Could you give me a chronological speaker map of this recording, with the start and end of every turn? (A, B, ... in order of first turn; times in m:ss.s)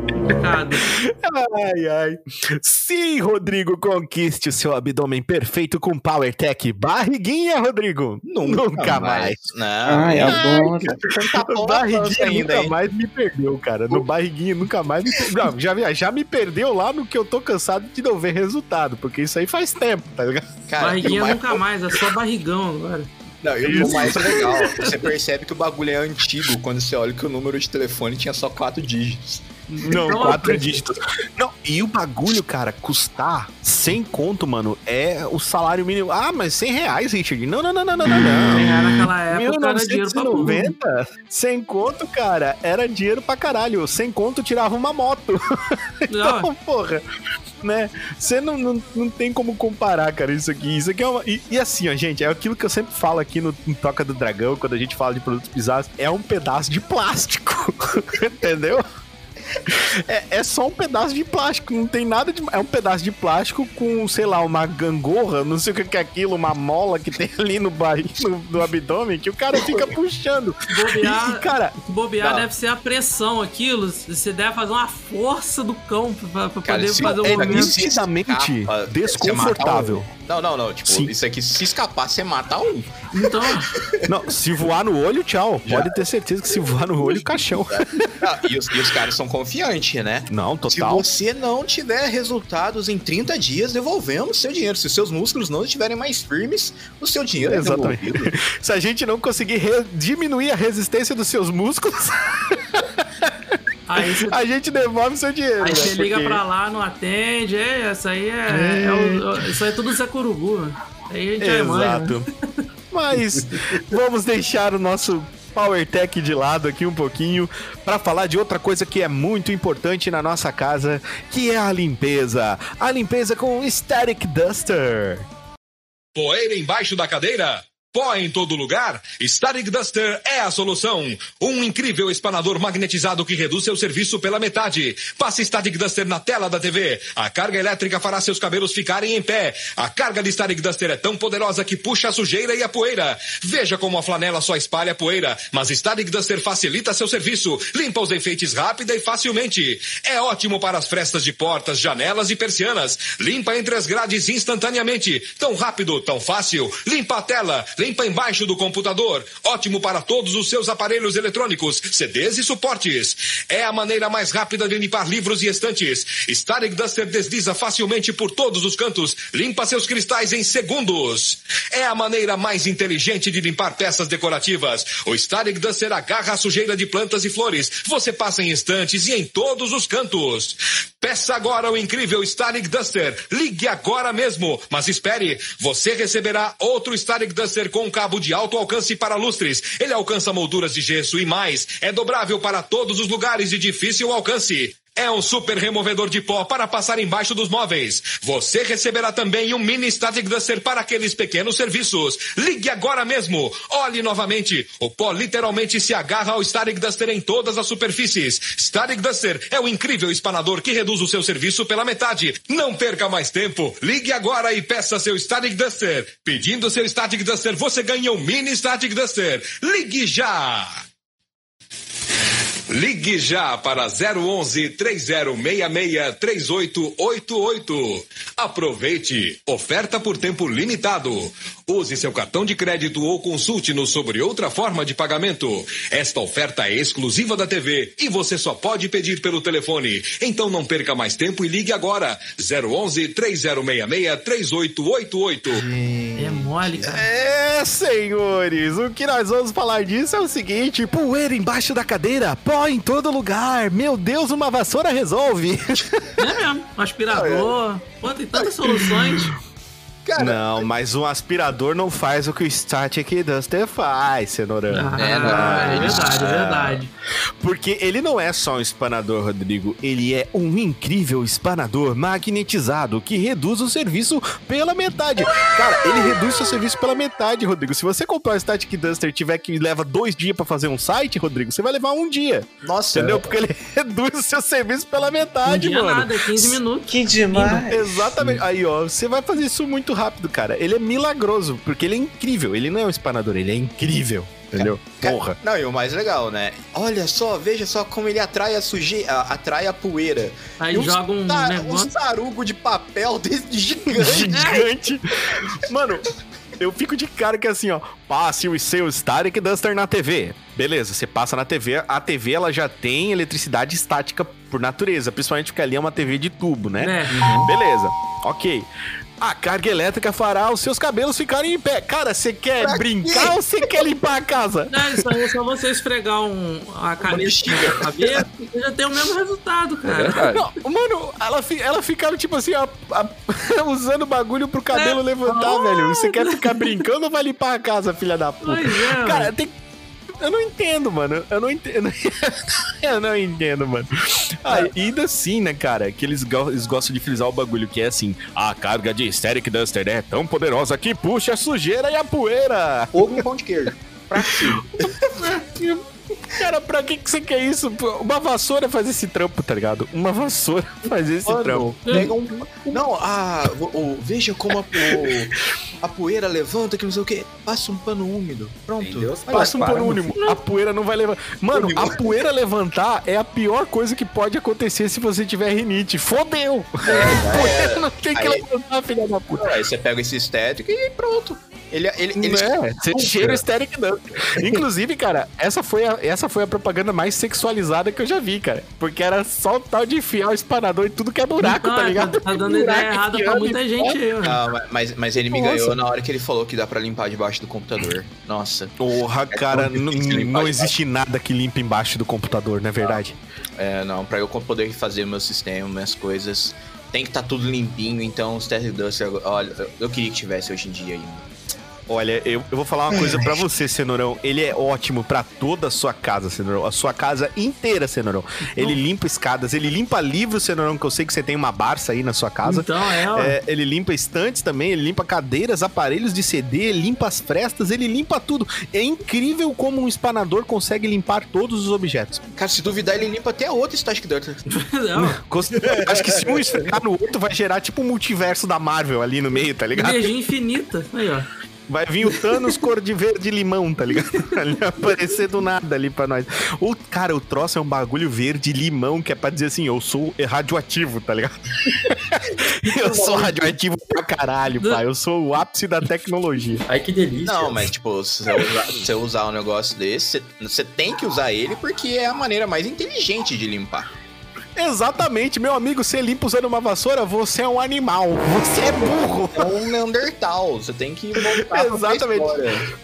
0:00.2-0:00.9 A
0:00.9-0:09.4 B
0:08.2-0:12.8 C
0:10.2-0:20.5 B
0:20.7-0:21.6 C
0:20.8-0:23.1 A
0:23.4-0:29.4 C
0:23.6-0:24.6 B
0:23.8-0:24.9 A
0:29.7-0:30.8 A
0:29.8-0:47.0 B
0:38.5-0:40.7 A
0:46.1-0:46.5 A
0:47.6-0:58.8 B
1:00.1-1:11.7 B
1:09.5-1:09.9 C
1:10.7-1:17.8 A
1:16.6-1:24.0 C
1:17.1-1:20.1 B
1:20.9-1:21.1 B
1:23.1-1:23.7 A
1:24.1-1:27.8 B
1:25.6-1:26.1 C
1:27.1-1:38.3 C
1:30.3-1:31.0 B
1:37.4-1:43.3 B
1:43.9-1:44.4 A
1:44.0-1:46.4 B
1:45.6-1:52.2 A
1:48.5-1:49.3 B
1:51.4-1:52.2 B
1:52.9-2:05.2 B
2:06.1-3:40.8 D
3:42.7-4:05.6 D
4:05.5-4:07.0 C
4:06.1-4:07.0 A
4:06.9-4:16.2 B
4:16.2-4:19.4 A
4:18.3-4:18.9 B
4:20.0-4:20.6 C
4:20.2-4:26.8 B
4:24.7-4:26.9 A
4:25.0-4:26.4 C
4:27.4-4:46.6 B
4:42.6-4:43.3 C
4:45.4-4:47.7 A
4:46.9-4:47.7 E
4:47.7-4:55.4 B
4:54.5-5:04.4 C
5:00.6-5:01.9 A
5:03.9-5:06.1 B
5:04.3-5:04.6 A
5:06.6-5:18.6 B
5:16.8-5:17.2 A
5:17.1-5:17.5 C
5:19.2-5:25.0 B
5:22.6-5:23.9 C
5:24.7-5:30.4 A
5:27.0-5:27.8 C
5:29.9-5:30.4 E
5:30.3-5:39.5 B
5:34.7-5:36.8 A
5:38.4-5:39.3 A
5:40.2-5:53.2 B
5:52.9-5:55.2 C
5:54.6-5:55.8 B
5:56.3-6:02.8 B
6:01.2-6:09.6 C
6:04.7-6:05.1 B
6:08.8-6:09.8 E
6:09.3-6:19.5 B
6:11.5-6:12.0 C
6:16.8-6:18.4 C
6:19.4-6:23.4 C
6:22.2-6:34.0 B
6:31.4-6:34.4 A
6:34.2-6:38.7 C
6:35.3-6:35.7 B
6:38.8-6:43.1 B
6:39.3-6:40.7 C
6:43.6-6:51.2 C
6:51.9-7:12.2 B
6:52.9-6:53.4 C
7:02.4-7:03.4 A
7:12.3-7:14.4 C
7:14.5-7:15.2 A
7:15.0-7:20.1 B
7:15.6-7:16.7 C
7:19.8-7:21.3 A
7:21.7-7:36.6 B
7:32.6-7:33.5 C
7:36.7-7:37.7 E
7:37.2-7:43.9 C
7:44.6-7:49.5 B
7:49.4-7:52.7 C
7:51.5-7:52.4 B